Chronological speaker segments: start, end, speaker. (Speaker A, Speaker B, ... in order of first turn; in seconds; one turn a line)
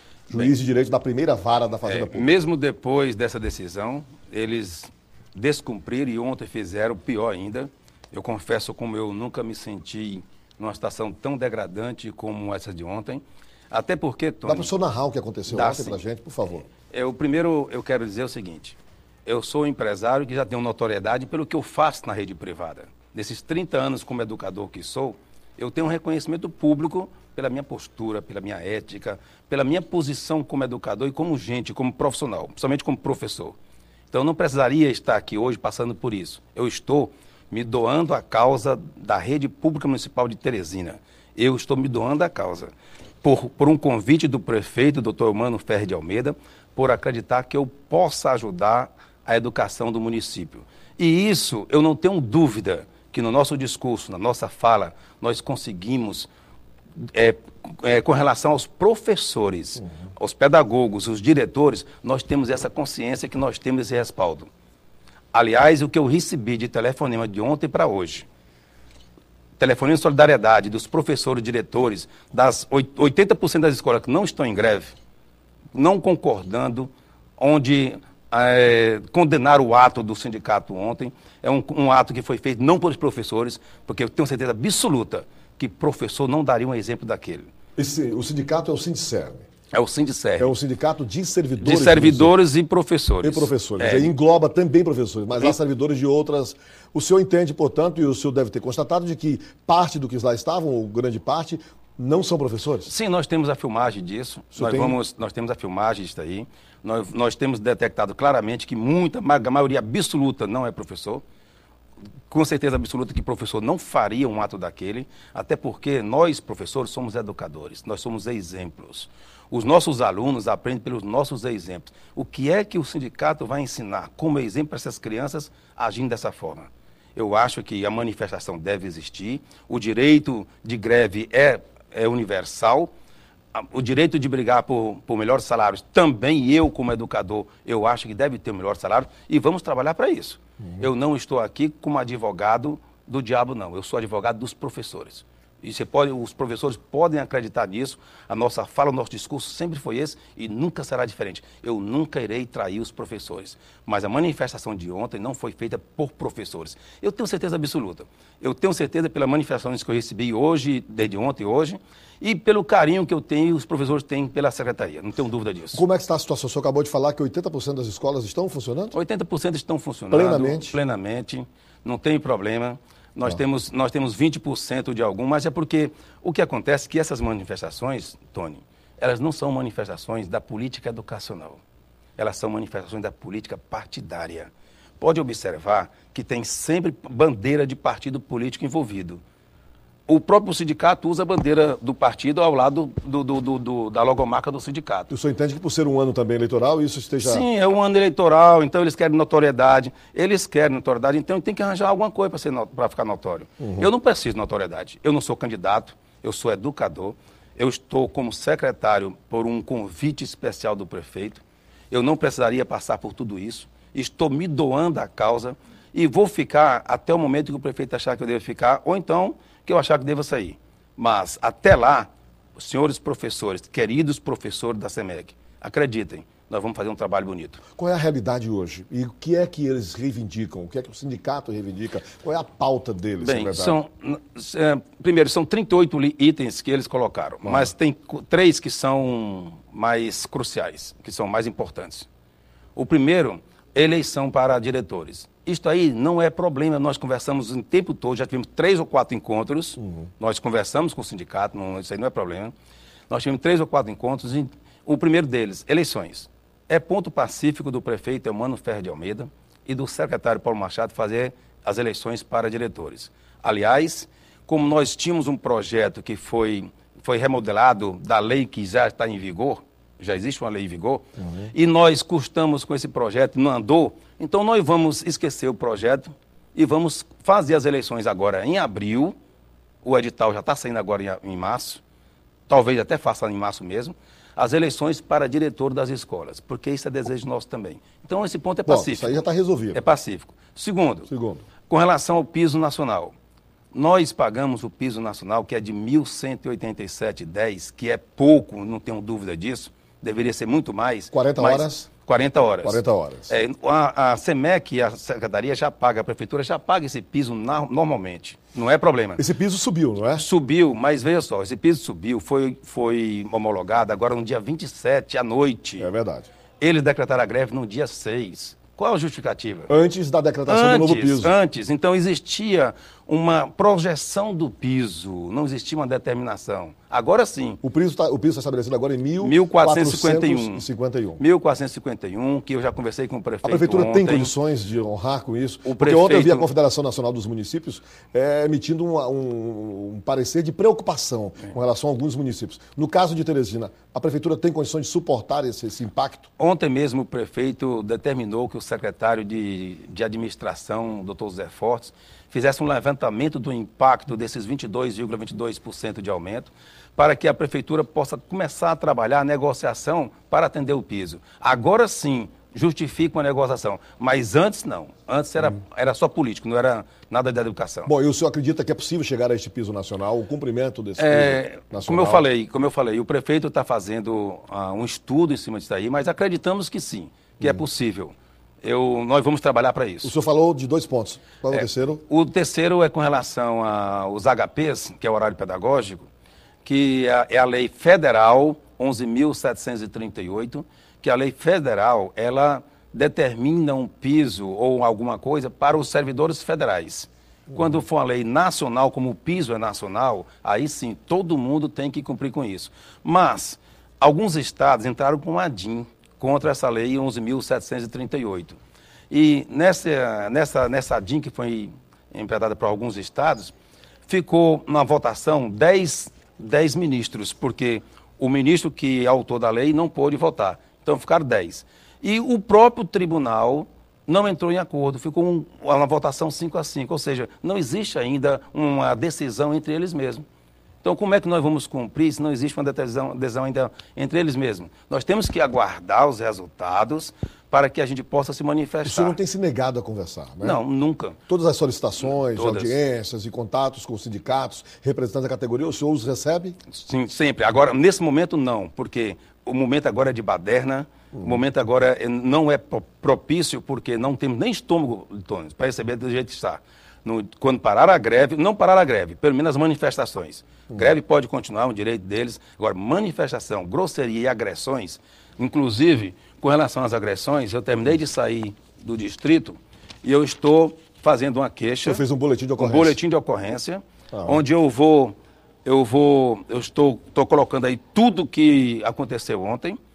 Speaker A: 0.3-2.3
Speaker B: 1.9-14.7
Speaker A: 14.4-16.7
Speaker B: 15.5-16.0
Speaker B: 16.9-33.5
Speaker B: 34.1-56.3
Speaker B: 57.0-64.5
Speaker B: 65.3-68.2
Speaker B: 69.6-74.9
Speaker B: 75.7-87.5
Speaker A: 87.8-89.5
Speaker B: 89.7-90.5
Speaker A: 90.4-92.3
Speaker B: 91.6-94.1
Speaker A: 93.2-102.9
Speaker B: 102.8-111.2
Speaker A: 104.5-105.0
Speaker B: 112.3-132.9
Speaker B: 133.5-165.8
Speaker A: 165.7-168.9
Speaker B: 168.9-181.6
Speaker A: 170.1-170.8
Speaker B: 182.2-189.2
Speaker B: 190.1-195.1
Speaker A: 195.1-197.4
Speaker B: 197.2-227.6
Speaker A: 227.8-233.8
Speaker B: 233.2-242.1
Speaker B: 242.8-252.5
Speaker B: 253.1-279.1
Speaker A: 271.2-271.5
Speaker B: 279.8-281.8
Speaker B: 282.5-291.1
Speaker A: 288.6-289.8
Speaker A: 291.1-291.4
Speaker B: 291.7-293.1
Speaker B: 293.7-309.2
Speaker A: 301.1-301.9
Speaker A: 302.6-303.3
Speaker A: 309.2-310.2
Speaker B: 310.1-315.9
Speaker A: 315.8-316.3
Speaker B: 316.6-319.7
Speaker A: 319.7-321.3
Speaker B: 320.4-327.6
Speaker A: 327.6-331.2
Speaker B: 329.2-330.6
Speaker B: 331.2-334.3
Speaker A: 333.4-346.3
Speaker B: 335.6-336.5
Speaker B: 346.4-367.9
Speaker A: 367.9-372.2
Speaker B: 371.0-380.1
Speaker A: 380.0-382.0
Speaker B: 381.5-386.1
Speaker B: 386.6-408.6
Speaker B: 409.1-413.5
Speaker B: 414.1-430.2
Speaker B: 430.8-439.2
Speaker A: 438.8-440.6
Speaker B: 440.4-441.2
Speaker A: 441.3-446.6
Speaker B: 442.0-442.8
Speaker B: 446.7-472.0
Speaker A: 471.8-473.0
Speaker B: 472.6-479.8
Speaker A: 474.1-474.4